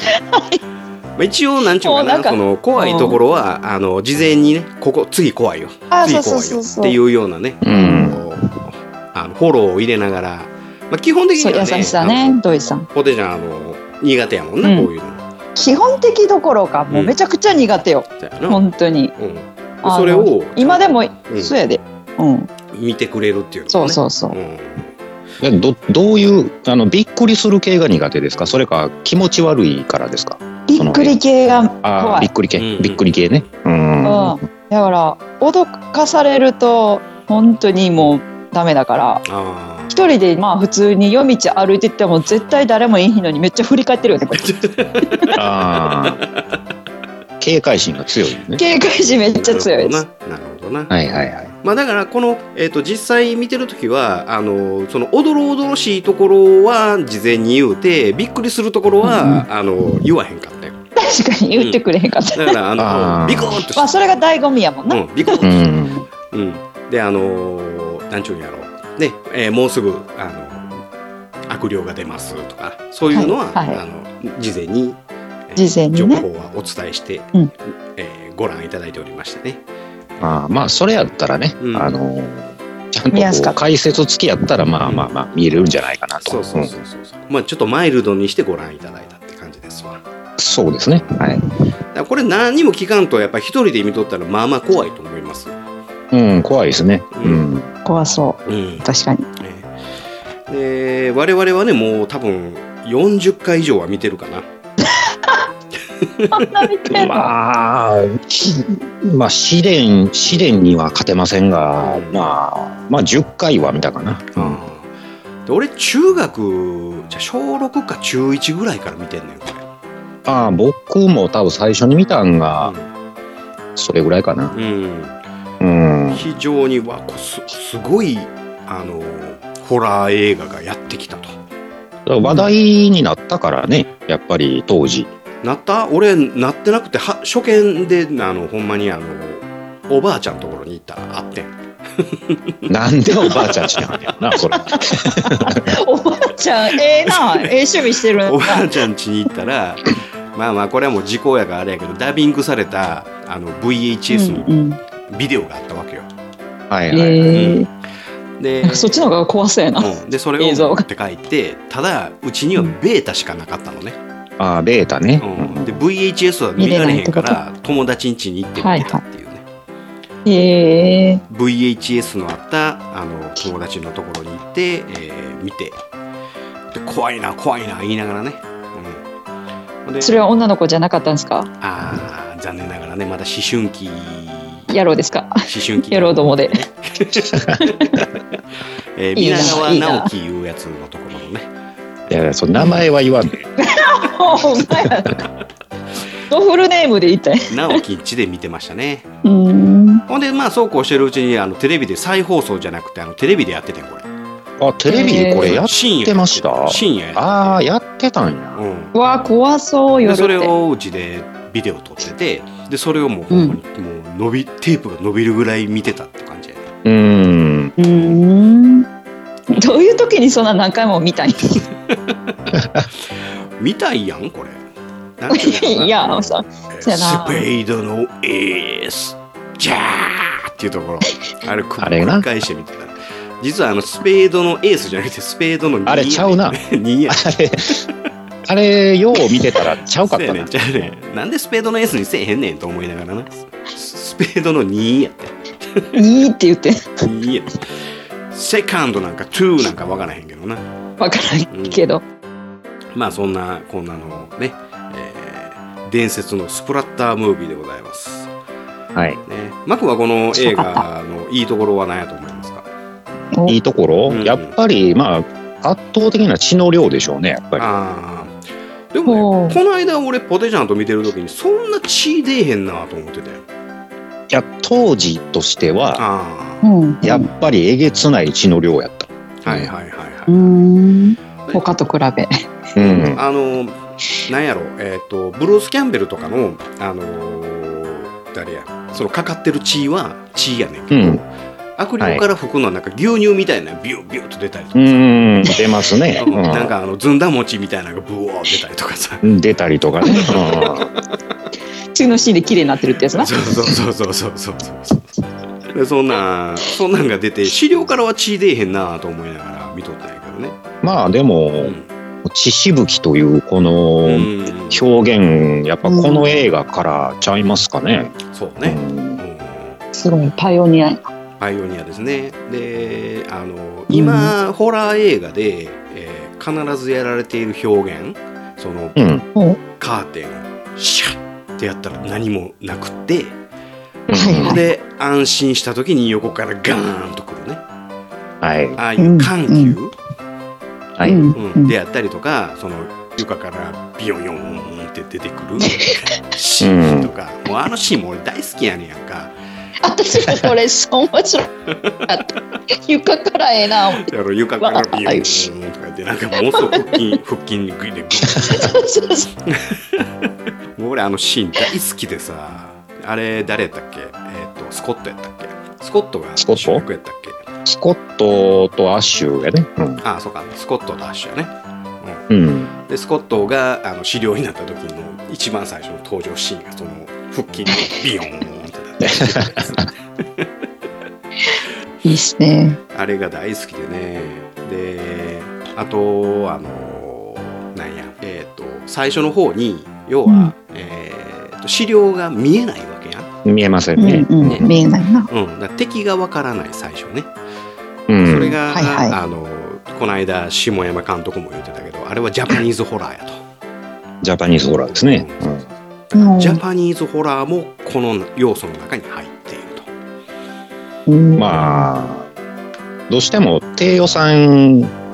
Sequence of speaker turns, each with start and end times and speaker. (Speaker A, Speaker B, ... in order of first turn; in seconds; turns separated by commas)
Speaker A: 0.1-0.6, Speaker B: 1.2-12.4, Speaker A: 1.8-3.2, Speaker A: 5.9-7.0, Speaker C: 7.6-8.2, Speaker A: 7.7-8.1, Speaker A: 11.4-12.9, Speaker B: 12.9-15.2, Speaker A: 14.6-14.9, Speaker A: 15.6-19.1, Speaker B: 16.9-17.2, Speaker B: 18.2-18.6, Speaker B: 19.2-21.6, Speaker A: 19.8-22.5, Speaker B: 22.7-24.9, Speaker A: 23.7-24.4, Speaker C: 25.4-31.2, Speaker A: 30.7-32.3, Speaker C: 31.8-34.4, Speaker B: 32.6-33.2, Speaker A: 34.0-39.2, Speaker B: 39.3-39.9, Speaker A: 39.9-44.5, Speaker B: 44.3-45.3, Speaker A: 45.0-45.3, Speaker C: 45.4-46.2, Speaker B: 46.0-46.3, Speaker C: 47.4-48.6, Speaker A: 48.6-50.0, Speaker B: 49.1-51.0, Speaker C: 50.9-51.5, Speaker B: 51.6-60.8, Speaker A: 59.0-59.4, Speaker A: 61.0-62.5, Speaker B: 62.3-64.0, Speaker C: 62.8-63.6, Speaker A: 63.8-65.4, Speaker B: 64.9-65.7, Speaker C: 65.4-66.1, Speaker B: 66.3-70.8, Speaker B: 71.5-75.0, Speaker A: 73.1-73.8, Speaker B: 75.5-77.3, Speaker A: 75.6-76.2, Speaker B: 78.0-79.6, Speaker C: 80.2-86.7, Speaker B: 81.6-81.9, Speaker A: 83.1-83.6, Speaker B: 84.8-85.1, Speaker B: 86.2-90.0, Speaker C: 90.4-91.4, Speaker B: 91.0-91.2, Speaker B: 91.9-95.5, Speaker C: 96.1-97.7, Speaker B: 97.1-97.5, Speaker A: 97.8-99.3, Speaker B: 98.5-98.9, Speaker B: 99.4-99.7, Speaker B: 100.5-104.5, Speaker B: 106.0-106.7, Speaker A: 106.3-107.3, Speaker C: 106.9-114.6, Speaker B: 110.2-110.5, Speaker B: 111.8-112.2, Speaker B: 114.3-114.9, Speaker B: 115.5-119.7, Speaker C: 120.3-122.7, Speaker B: 122.6-122.9, Speaker C: 123.8-124.5, Speaker B: 124.5-125.2, Speaker C: 125.6-126.2, Speaker B: 126.1-131.3, Speaker C: 132.1-135.1, Speaker B: 135.4-142.6, Speaker C: 142.7-145.6, Speaker B: 143.3-144.1, Speaker A: 144.4-148.7, Speaker B: 147.1-147.5, Speaker B: 148.2-154.5, Speaker A: 154.1-154.8, Speaker B: 155.1-156.1, Speaker C: 156.7-157.4, Speaker A: 156.9-157.7, Speaker B: 157.3-157.6, Speaker B: 158.4-158.9, Speaker A: 158.6-160.8, Speaker B: 159.8-164.0, Speaker C: 164.4-165.8, Speaker B: 165.2-169.4, Speaker A: 166.6-167.4, Speaker A: 168.6-169.0, Speaker A: 170.3-171.2, Speaker B: 171.3-175.8, Speaker B: 176.7-179.0, Speaker B: 179.8-180.2, Speaker A: 180.0-181.5, Speaker B: 181.6-184.7, Speaker A: 184.7-185.4, Speaker B: 185.5-187.5, Speaker A: 185.9-186.7, Speaker A: 187.6-188.0, Speaker B: 189.0-191.5, Speaker A: 189.2-190.1, Speaker C: 192.1-193.4, Speaker A: 193.6-195.2, Speaker A: 196.3-197.8, Speaker B: 197.5-199.1, Speaker A: 199.2-200.0, Speaker B: 200.1-204.1, Speaker C: 204.6-208.6, Speaker A: 204.9-205.6, Speaker B: 205.4-207.7, Speaker B: 208.6-208.9, Speaker A: 208.9-210.5, Speaker B: 210.0-216.7, Speaker A: 213.3-213.6, Speaker C: 216.8-217.7, Speaker A: 217.8-218.9, Speaker A: 219.5-221.6, Speaker C: 222.5-222.8, Speaker B: 223.6-224.6, Speaker B: 225.2-237.8, Speaker A: 225.3-227.4, Speaker C: 231.8-232.2, Speaker C: 235.9-236.6, Speaker C: 237.1-237.8, Speaker C: 238.5-240.5, Speaker B: 240.0-245.9, Speaker A: 245.9-247.0, Speaker B: 247.0-247.7, Speaker B: 248.3-250.6, Speaker A: 251.0-252.0, Speaker B: 251.5-251.8, Speaker B: 252.9-258.3, Speaker C: 258.9-259.2, Speaker B: 259.3-262.7, Speaker A: 260.4-260.9, Speaker C: 263.5-267.7, Speaker B: 264.1-264.6, Speaker B: 267.6-268.4, Speaker B: 268.9-273.4, Speaker A: 269.1-269.6, Speaker C: 274.3-276.0, Speaker B: 276.0-276.6, Speaker A: 276.6-277.3, Speaker C: 277.0-279.7, Speaker B: 279.4-280.4, Speaker A: 280.3-282.3, Speaker C: 282.8-283.2, Speaker B: 282.8-291.3, Speaker C: 290.9-291.2, Speaker B: 291.8-295.5, Speaker C: 294.8-296.7, Speaker B: 296.2-299.3, Speaker C: 299.2-300.9, Speaker B: 300.1-301.0, Speaker A: 301.9-303.3, Speaker B: 303.1-305.1, Speaker B: 305.7-310.6, Speaker C: 310.8-319.2, Speaker B: 311.6-311.9, Speaker B: 314.1-314.8, Speaker A: 315.9-316.5, Speaker B: 318.3-319.8, Speaker A: 319.9-321.0, Speaker B: 321.4-329.0, Speaker A: 323.9-324.3, Speaker C: 329.0-329.2, Speaker B: 329.8-333.4, Speaker A: 334.1-334.6, Speaker C: 334.1-334.6, Speaker B: 334.3-337.6, Speaker C: 338.4-338.8, Speaker B: 338.8-339.9, Speaker A: 339.0-339.7, Speaker C: 341.0-341.3, Speaker A: 341.1-341.7, Speaker B: 341.4-349.3, Speaker C: 346.6-347.1, Speaker A: 349.8-351.5, Speaker A: 352.1-354.1, Speaker B: 354.1-358.7, Speaker A: 354.6-355.4, Speaker A: 356.5-356.8, Speaker A: 358.4-359.3, Speaker B: 359.5-360.1, Speaker B: 360.8-367.4, Speaker C: 366.4-366.8, Speaker C: 367.6-370.0, Speaker B: 370.0-372.2, Speaker C: 372.3-372.7, Speaker B: 372.9-380.5, Speaker C: 379.0-379.8, Speaker A: 382.1-382.8, Speaker B: 382.9-393.3, Speaker A: 390.3-390.5, Speaker C: 393.4-394.7, Speaker A: 394.0-395.3, Speaker B: 394.4-394.7, Speaker B: 395.3-397.3, Speaker C: 398.1-398.6, Speaker B: 398.2-403.4, Speaker A: 398.7-399.1, Speaker C: 404.2-405.6, Speaker B: 404.9-405.5, Speaker B: 406.1-409.9, Speaker A: 406.1-406.6, Speaker A: 411.1-411.9, Speaker C: 411.4-412.3, Speaker C: 413.1-414.9